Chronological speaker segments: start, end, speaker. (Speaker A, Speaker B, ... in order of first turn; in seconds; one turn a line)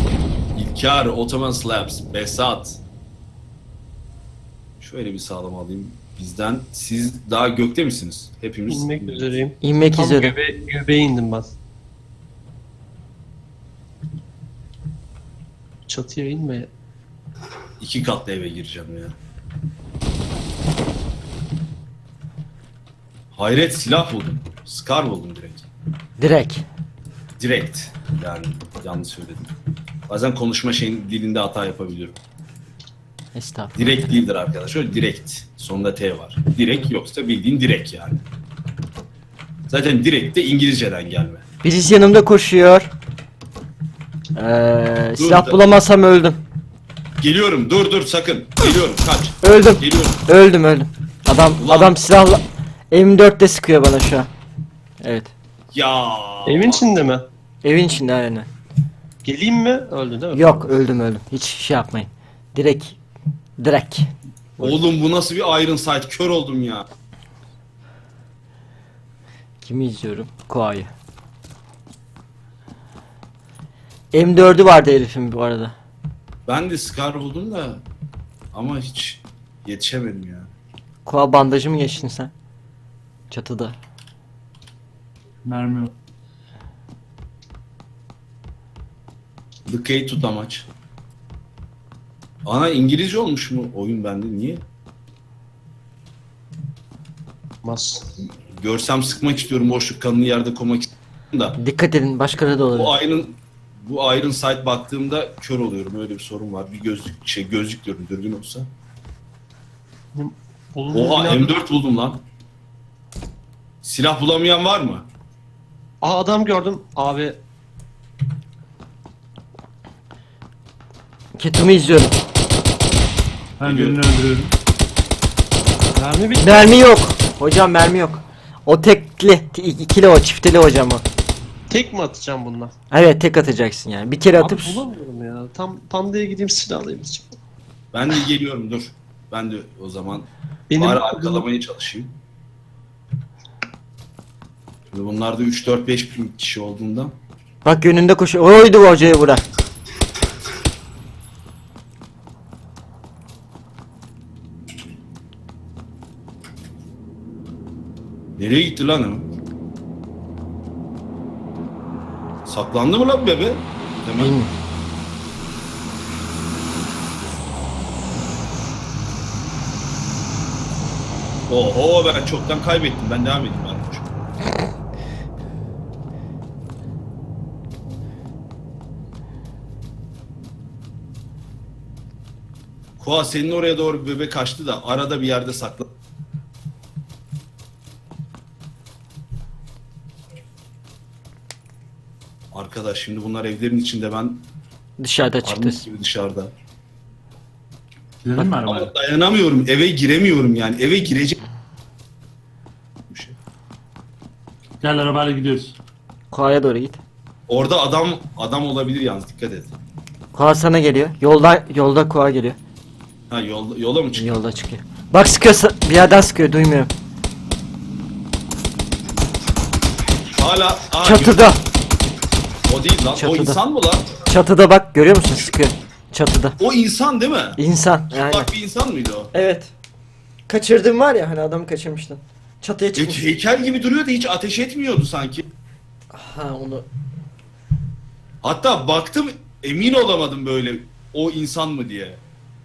Speaker A: 0.6-2.8
Speaker A: 4.8-9.3
Speaker B: 8.7-11.5
Speaker C: 9.6-10.4
Speaker B: 15.9-16.7
Speaker A: 17.8-19.2
Speaker A: 23.3-25.7
Speaker C: 26.2-26.6
Speaker A: 27.4-29.5
Speaker A: 30.1-32.2
Speaker C: 33.4-34.2
Speaker A: 33.8-38.2
Speaker A: 39.7-41.4
Speaker C: 41.6-42.9
Speaker C: 44.4-46.4
Speaker A: 45.2-45.7
Speaker A: 47.2-50.2
Speaker C: 49.4-54.3
Speaker A: 51.6-52.0
Speaker C: 55.0-55.3
Speaker A: 55.7-56.9
Speaker B: 56.5-57.3
Speaker C: 57.6-58.5
Speaker B: 59.2-60.7
Speaker C: 60.3-63.0
Speaker C: 63.6-64.1
Speaker A: 64.6-66.9
Speaker C: 69.6-70.9
Speaker C: 74.1-75.8
Speaker A: 76.5-77.8
Speaker A: 78.5-80.5
Speaker C: 81.1-82.3
Speaker C: 83.3-83.8
Speaker D: 85.5-85.9
Speaker A: 89.7-90.7
Speaker A: 92.5-94.6
Speaker B: 97.6-98.1
Speaker A: 98.5-101.6
Speaker C: 101.6-103.0
Speaker A: 102.7-108.7
Speaker B: 110.1-111.6
Speaker A: 110.9-112.2
Speaker A: 113.8-115.1
Speaker B: 116.0-117.4
Speaker C: 121.4-122.2
Speaker D: 123.6-124.5
Speaker A: 123.6-124.0
Speaker B: 126.0-126.8
Speaker C: 126.4-131.0
Speaker B: 131.7-132.7
Speaker C: 132.9-134.8
Speaker B: 134.4-137.4
Speaker A: 137.9-142.1
Speaker B: 140.7-141.4
Speaker A: 144.9-147.2
Speaker C: 147.7-149.4
Speaker A: 158.4-159.3
Speaker A: 162.5-164.4
Speaker C: 164.2-164.5
Speaker A: 171.5-174.2
Speaker A: 183.0-185.9
Speaker A: 192.5-194.5
Speaker C: 195.0-195.8
Speaker A: 195.4-196.5
Speaker D: 198.2-198.9
Speaker A: 198.7-201.4
Speaker A: 203.1-203.4
Speaker D: 204.8-205.8
Speaker C: 206.3-207.0
Speaker A: 207.5-209.7
Speaker C: 210.3-212.6
Speaker A: 213.3-214.4
Speaker C: 214.2-216.9
Speaker A: 220.4-221.5
Speaker C: 221.0-221.6
Speaker A: 222.7-224.1
Speaker C: 223.2-223.6
Speaker C: 224.2-226.6
Speaker A: 226.6-227.6
Speaker C: 227.6-228.5
Speaker A: 228.1-229.3
Speaker C: 229.3-229.7
Speaker C: 230.5-233.2
Speaker A: 233.0-235.5
Speaker C: 236.1-236.9
Speaker A: 238.4-242.2